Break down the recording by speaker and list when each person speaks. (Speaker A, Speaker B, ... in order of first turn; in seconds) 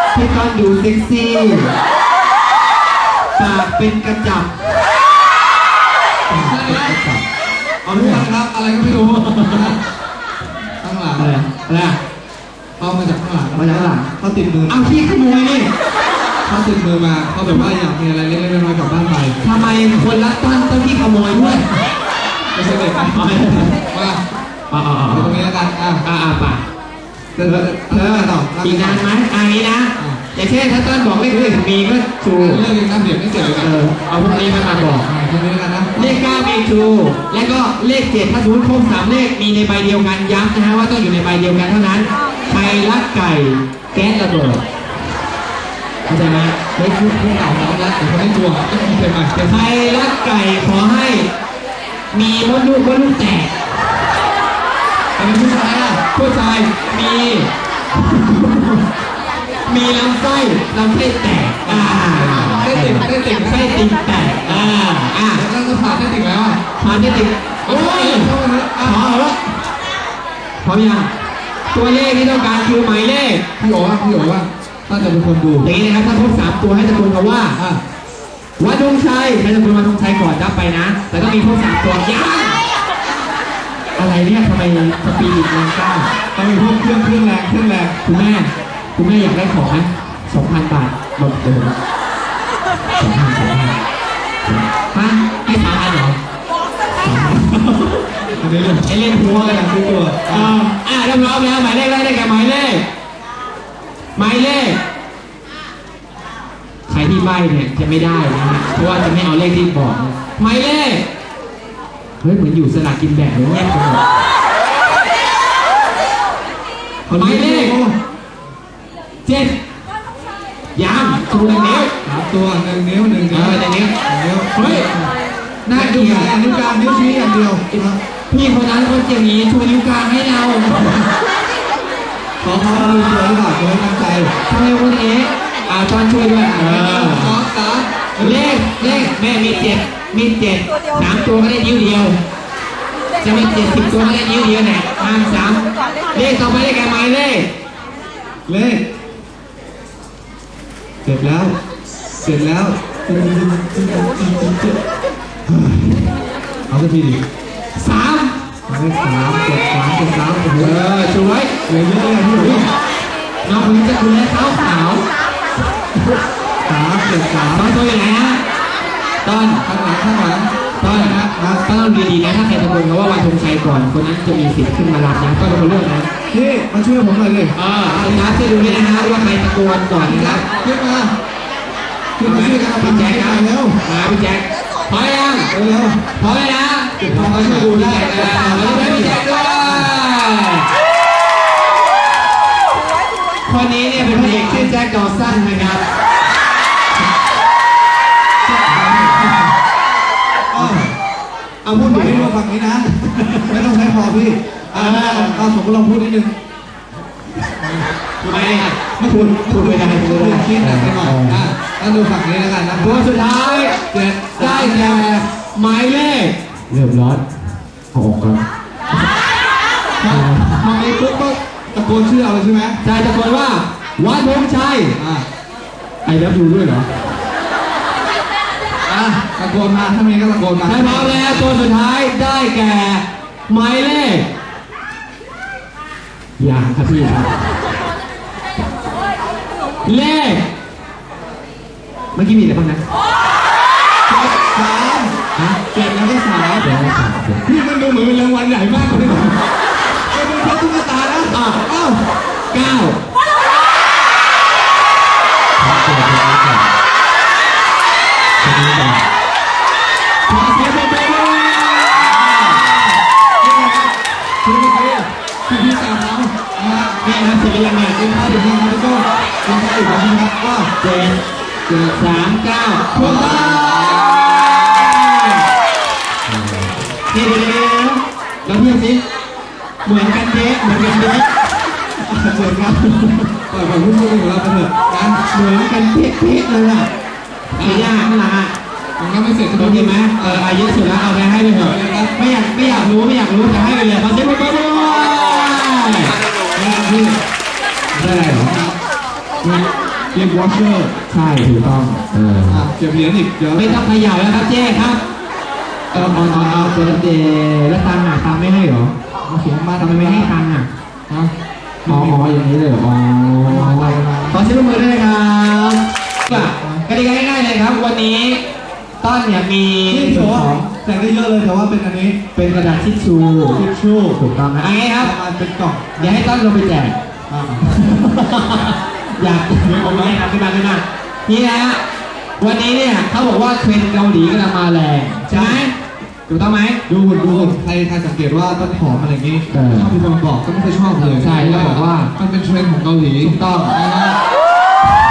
Speaker A: 0.1-1.7, 3.4-4.5, 6.3-7.0, 7.9-8.3, 8.8-9.8, 11.2-12.0, 13.5-14.1, 14.7-15.7, 19.4-21.7, 23.1-23.8, 24.7-25.4, 26.0-26.6, 27.4-32.6, 33.6-35.1, 36.0-44.6, 46.1-46.6, 49.4-51.3, 52.1-53.5, 56.1-58.8, 59.6-65.4, 66.8-69.5, 70.6-71.1, 71.7-73.4, 75.6-77.6, 78.6-82.6, 84.0-86.1, 88.0-91.7, 93.0-93.8, 94.4-96.2, 97.0-98.0, 98.8-99.7, 100.3-102.8, 104.2-104.8, 106.9-111.0, 112.2-114.0, 117.1-117.8, 119.2-119.5, 120.8-121.9, 123.3-123.9, 124.5-124.9, 125.7-126.3, 127.7-131.1, 132.7-133.2, 134.5-137.4, 138.2-142.2, 143.2-147.5, 157.8-158.3, 160.6-161.5, 162.3-162.7, 163.4-165.1, 167.5-168.4, 169.2-169.7, 170.8-176.1, 177.5-180.4, 182.2-185.5, 186.2-190.7, 193.4-195.8, 200.6-200.9, 201.6-202.3, 203.0-203.6, 204.7-205.5, 208.2-211.5, 212.8-213.8, 214.4-217.3, 217.9-219.1, 220.1-220.6, 222.8-225.0, 226.0-226.9, 230.6-234.3, 236.4-237.3, 239.8-240.4, 242.1-242.8, 246.6-247.4, 251.3-251.6, 252.5-253.0, 255.6-256.7, 258.4-259.1, 260.3-262.6, 267.0-268.0, 270.8-275.3, 276.3-279.0, 279.8-281.4, 282.0-283.3, 285.3-286.9, 287.6-288.5, 289.5-296.1, 298.0-298.5, 301.1-302.7, 303.5-305.0, 305.9-308.9, 309.8-310.7, 311.9-318.4, 319.0-320.7, 322.3-323.6, 324.2-325.1, 326.0-327.0, 327.7-331.8, 332.4-335.7, 336.3-336.8, 339.5-340.0, 341.2-342.1, 343.2-343.8
Speaker B: 6.3-7.2, 7.8-9.8, 10.8-11.3, 12.8-14.9, 16.4-19.4, 22.5-24.2, 25.1-26.0, 27.4-29.1, 31.3-31.6, 32.4-33.7, 35.0-36.2, 46.7-49.7, 55.2-56.0, 61.6-63.8, 64.4-64.7, 65.3-66.6, 67.6-69.0, 73.6-75.7, 77.5-77.8, 86.3-88.0, 98.4-100.6, 117.1-118.0, 122.0-125.1, 125.7-128.0, 132.4-134.3, 136.5-139.1, 148.5-148.8, 151.0-151.5, 152.2-154.8, 155.5-156.1, 156.7-157.2, 158.7-160.8, 161.7-162.7, 163.5-163.8, 166.7-167.7, 169.6-171.6, 176.3-179.3, 180.0-181.1, 182.2-183.8, 185.5-186.0, 187.0-189.9, 193.9-194.7, 198.4-199.5, 200.5-200.9, 201.7-206.3, 207.6-213.1, 213.9-215.1, 220.0-222.8, 224.9-225.2, 228.8-231.6, 244.1-245.2, 245.7-246.7, 247.4-249.4, 250.1-252.1, 261.9-263.9, 264.4-267.0, 267.9-270.7, 272.9-274.9, 283.5-285.2, 287.6-288.0, 289.0-290.5, 291.5-292.9, 296.5-297.2, 297.9-298.8, 300.1-300.9, 302.5-303.9, 305.9-307.0, 309.2-310.3, 311.8-312.2, 313.4-314.4, 316.3-316.9, 319.9-322.2, 323.5-324.2, 325.0-326.2, 327.3-327.6, 329.6-330.2, 335.3-335.6, 336.9-344.2